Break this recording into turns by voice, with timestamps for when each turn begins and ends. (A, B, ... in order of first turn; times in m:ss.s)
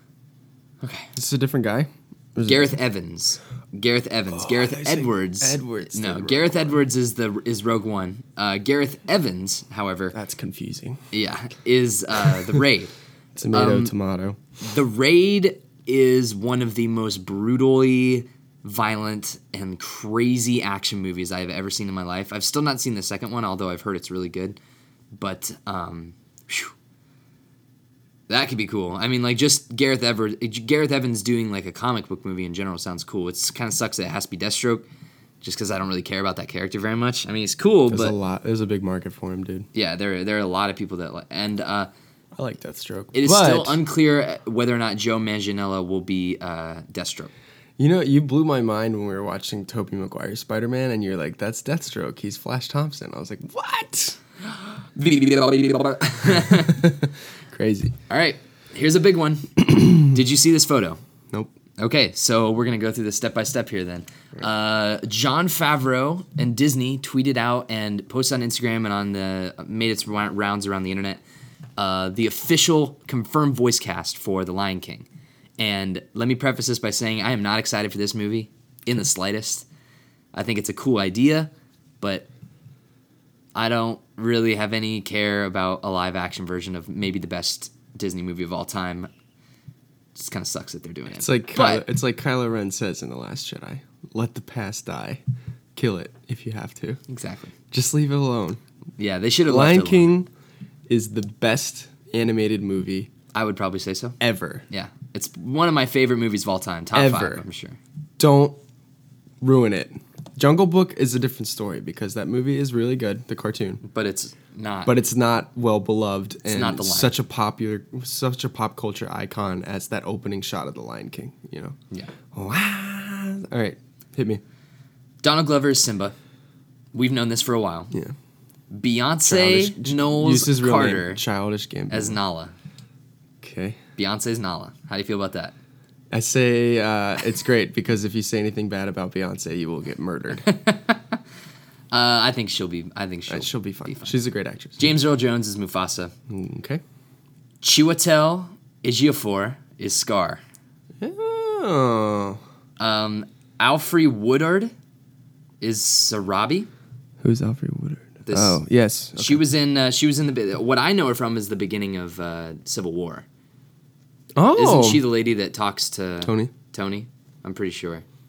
0:00.8-0:01.1 A
0:01.2-0:02.7 B
0:02.4-0:10.1 A
0:04.4-0:06.8 B
0:10.1-0:11.0 B
0:11.1-0:12.9 A
0:13.4-0:14.4 B
0:13.5-0:13.9 A
0:14.6-0:24.6 A
0:25.2-0:26.7 A
0:28.3-0:34.8 A
0:35.4-0:38.1 A
0:37.9-0:39.7 B
0:39.7-0:41.9 A
0:42.4-0:43.8 B
0:43.1-0:47.3 A
0:47.8-0:54.2 B
0:55.0-0:56.9 A
0:56.7-0:57.9 B
0:58.1-1:01.0 A
1:01.8-1:11.2 A
1:11.8-1:15.1 A
1:15.6-1:19.6 A
1:20.3-1:21.5 A
1:22.0-1:22.3 A
1:23.5-1:29.1 A
1:30.1-1:31.8 A
1:31.2-1:35.2 B
1:35.7-1:37.0 B
1:37.1-1:37.5 A
1:37.7-1:38.6 B
1:39.0-1:40.1 A
1:39.5-1:40.3 B
1:40.9-1:43.1 B
1:43.3-1:44.2 A
1:44.2-1:44.6 B
1:44.7-1:47.8 A
1:46.9-1:47.4 B
1:48.2-1:48.6 B
1:49.4-1:53.8 B
1:53.9-1:54.9 A
1:54.8-2:01.8 B
1:56.5-1:57.1 A
2:02.3-2:04.4 B
2:05.2-2:06.1 A
2:06.9-2:07.9 A
2:08.7-2:11.2 A
2:09.2-2:12.2 B
2:11.9-2:12.5 A
2:13.4-2:13.8 B
2:14.0-2:15.5 A
2:16.1-2:20.5 B
2:20.4-2:21.2 A
2:21.9-2:24.2 A
2:23.3-2:24.8 B
2:24.8-2:26.1 A
2:26.3-2:26.8 B
2:27.6-2:30.4 A
2:31.0-2:32.4 B
2:32.8-2:34.7 A
2:35.6-2:36.7 A
2:37.2-2:39.4 B
2:38.2-2:38.6 A
2:39.2-2:43.2 A
2:44.4-2:45.0 B
2:44.6-2:48.0 A
2:46.2-2:46.5 B